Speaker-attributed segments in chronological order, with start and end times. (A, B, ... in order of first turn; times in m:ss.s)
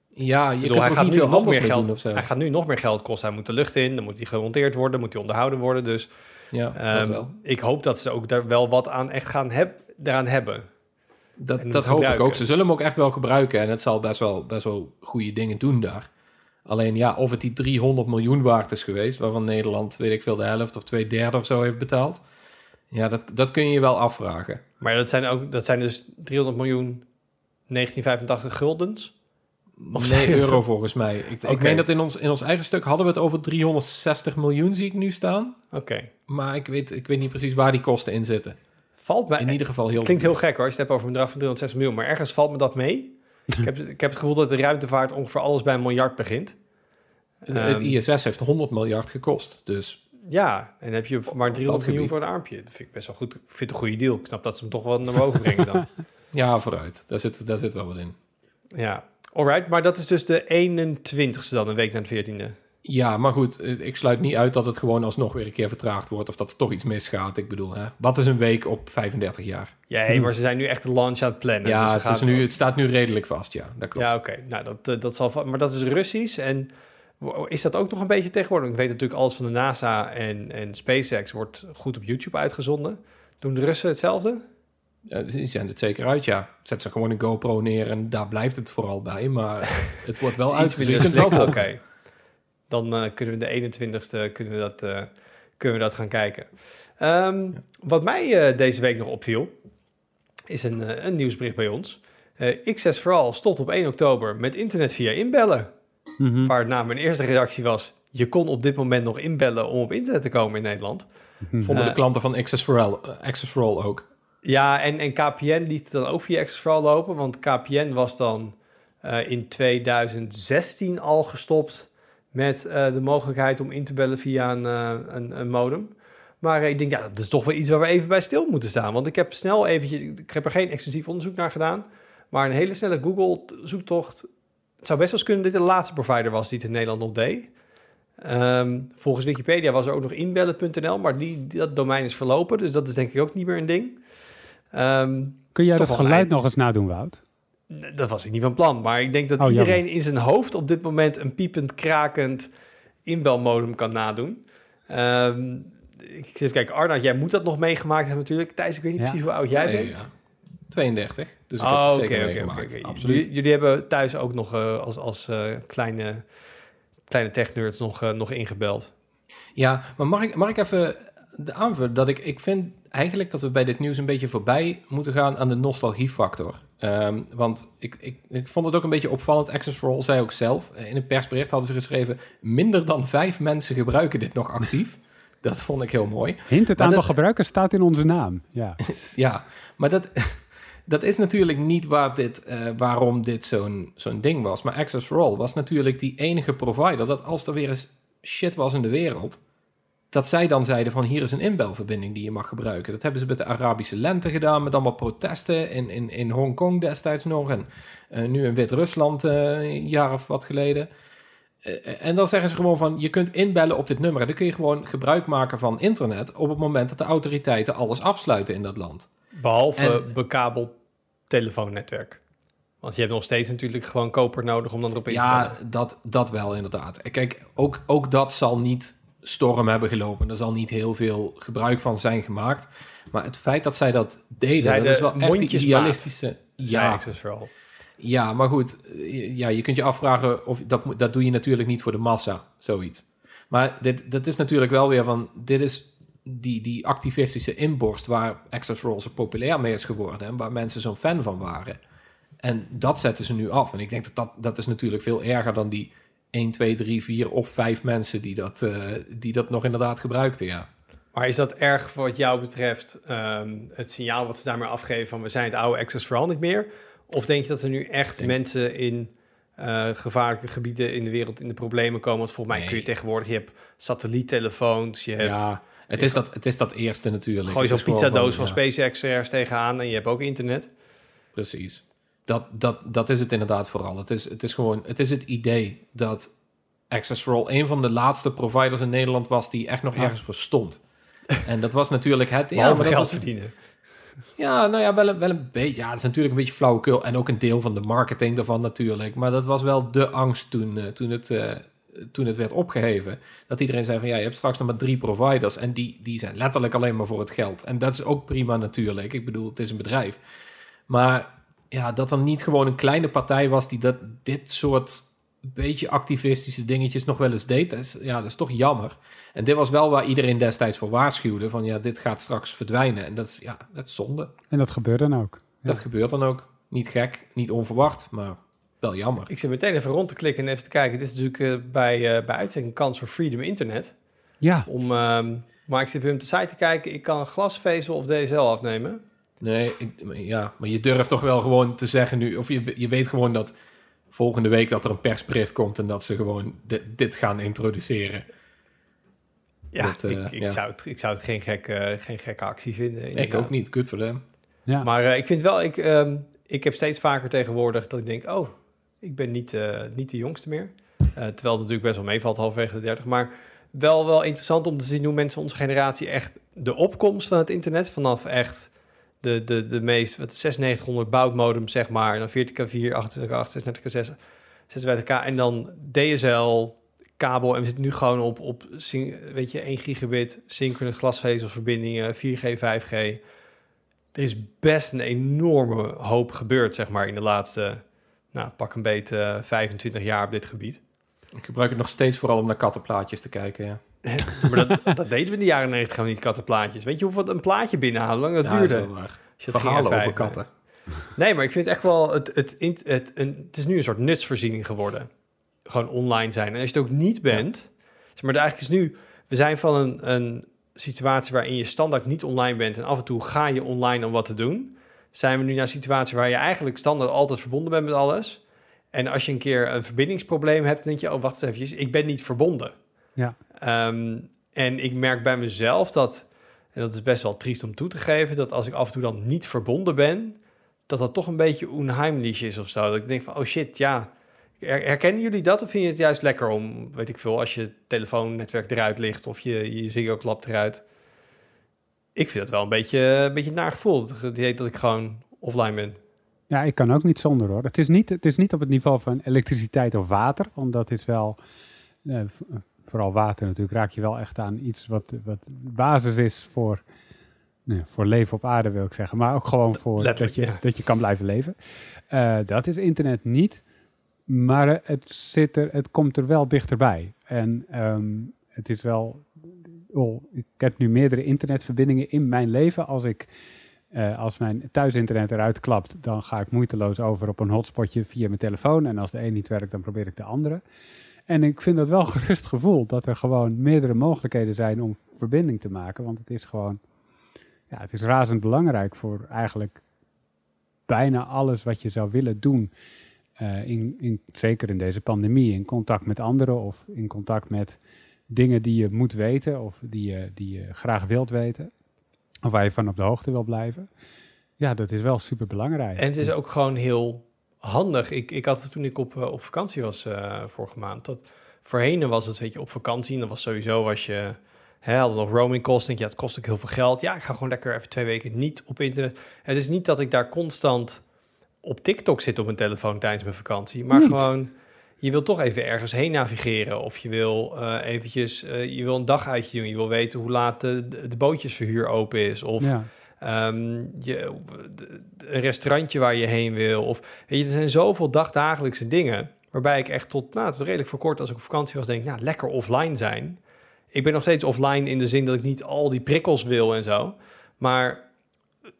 0:00.2-0:02.2 A
0:00.6-0:10.7 B
0:06.5-0:07.3 A
0:11.4-0:16.1 A
0:11.6-0:12.4 B
0:16.7-0:22.2 A
0:22.9-0:24.6 A
0:24.8-0:27.1 B
0:27.7-0:29.1 B
0:29.8-0:35.6 A
0:29.9-0:30.6 B
0:31.4-0:31.8 B
0:35.7-0:36.1 B
0:36.3-0:38.6 A
0:39.0-0:46.6 B
0:39.4-0:40.3 A
0:47.5-0:50.0 A
0:47.5-0:48.0 B
0:50.3-0:55.9 B
0:51.5-0:52.2 A
0:56.3-0:58.2 A
0:58.8-1:02.6 B
1:02.8-1:09.7 A
1:09.9-1:12.5 B
1:11.6-1:14.1 A
1:14.0-1:24.4 B
1:25.1-1:31.7 A
1:30.4-1:32.0 B
1:32.7-1:39.5 B
1:40.5-1:45.7 B
1:46.2-1:46.5 C
1:46.4-1:51.1 B
1:51.4-1:51.8 C
1:51.6-1:54.1 A
1:51.7-1:52.0 B
1:54.4-2:14.3 B
2:14.8-2:17.5 B
2:18.2-2:24.0 B
2:24.7-2:26.3 B
2:25.6-2:27.2 C
2:27.7-2:32.5 B
2:29.4-2:29.8 C
2:33.1-2:40.0 B
2:39.5-2:40.1 A
2:40.7-2:43.3 A
2:41.6-2:46.3 B
2:47.1-2:48.9 B
2:49.6-3:07.1 A
3:06.5-3:08.8 C
3:08.9-3:19.4 A
3:20.1-3:30.9 A
3:31.6-3:39.1 A
3:39.3-3:40.7 B
3:39.8-3:40.1 A
3:41.3-3:42.2 B
3:42.8-3:45.6 B
3:45.1-3:57.0 A
3:54.5-3:57.5 B
3:58.0-4:11.8 A
4:12.4-4:20.7 A
4:21.1-4:36.2 B
4:32.5-4:32.9 A
4:35.2-4:38.6 A
4:37.4-4:40.7 B
4:41.3-4:46.3 A
4:46.9-4:50.8 A
4:51.4-4:53.2 A
4:52.5-4:53.6 B
4:54.4-5:10.2 A
5:10.9-5:24.3 A
5:24.5-5:25.8 C
5:25.6-5:29.3 A
5:29.3-5:34.0 B
5:34.4-5:34.7 C
5:34.6-5:39.0 B
5:39.4-5:43.5 A
5:44.1-5:48.3 A
5:49.7-5:53.5 B
5:49.8-5:50.6 A
5:53.2-5:54.2 A
5:54.8-6:14.2 B
6:14.7-6:23.2 B
6:24.1-6:30.8 B
6:31.4-6:33.8 A
6:34.0-6:40.4 B
6:38.4-6:40.5 A
6:41.0-6:45.1 B
6:45.6-7:02.8 B
7:03.6-7:20.8 B
7:22.2-7:26.0 B
7:26.5-7:31.4 C
7:32.0-7:36.8 C
7:37.7-7:41.6 C
7:40.0-7:40.6 B
7:42.1-7:43.6 C
7:44.3-7:53.3 C
7:53.9-8:00.6 C
8:01.3-8:06.8 C
8:07.7-8:09.8 C
8:10.9-8:12.7 C
8:13.4-8:21.7 C
8:22.4-8:23.9 C
8:24.6-8:26.4 C
8:26.0-8:41.0 B
8:41.6-9:03.4 B
8:43.9-8:44.2 C
8:52.6-8:52.9 C
9:03.9-9:08.0 B